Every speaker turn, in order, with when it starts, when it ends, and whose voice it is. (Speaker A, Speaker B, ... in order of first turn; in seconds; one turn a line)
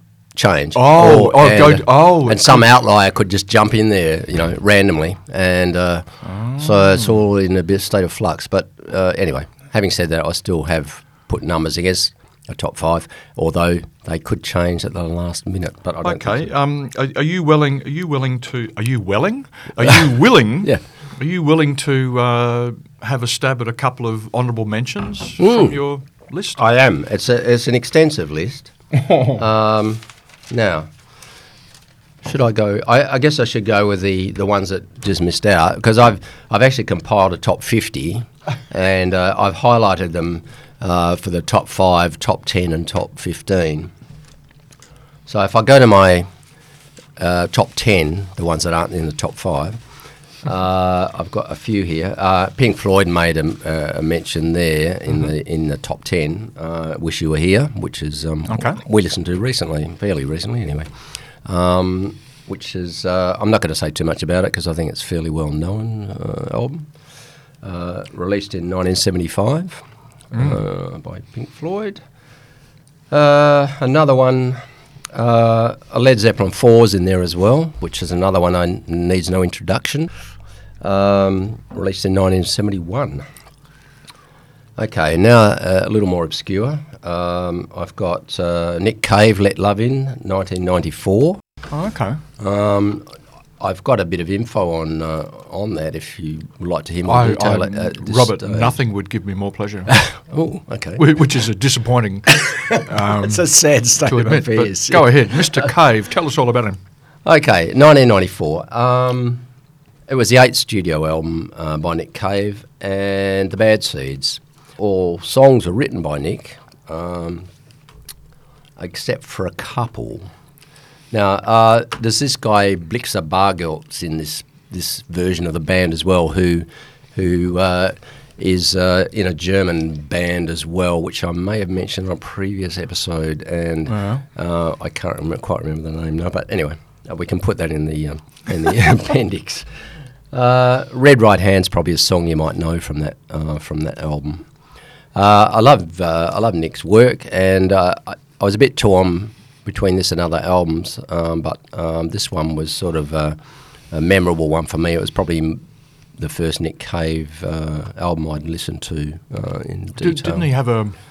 Speaker A: 0.3-6.1
Speaker B: 0.7-2.7
Speaker B: 6.2-7.1
Speaker A: 6.6-16.5
Speaker B: 16.0-26.6
Speaker A: 25.4-25.8
Speaker A: 26.6-30.9
Speaker A: 32.2-43.9
Speaker A: 45.3-46.3
Speaker A: 47.2-49.8
Speaker A: 50.4-60.9
Speaker B: 58.5-58.8
Speaker A: 61.4-66.9
Speaker A: 67.6-72.0
Speaker B: 70.3-70.6
Speaker A: 73.1-74.6
Speaker A: 75.1-80.1
Speaker A: 80.8-83.2
Speaker A: 84.8-91.4
Speaker B: 91.7-92.2
Speaker A: 92.4-93.0
Speaker A: 93.6-98.7
Speaker B: 97.0-99.9
Speaker A: 99.9-101.2
Speaker B: 101.0-103.4
Speaker A: 102.3-105.7
Speaker B: 104.0-106.8
Speaker A: 107.2-109.4
Speaker A: 110.1-117.5
Speaker A: 118.8-120.3
Speaker A: 121.1-139.7
Speaker B: 133.9-134.2
Speaker A: 140.3-144.4
Speaker A: 145.1-153.4
Speaker A: 153.9-155.6
Speaker A: 156.2-160.5
Speaker B: 160.0-160.9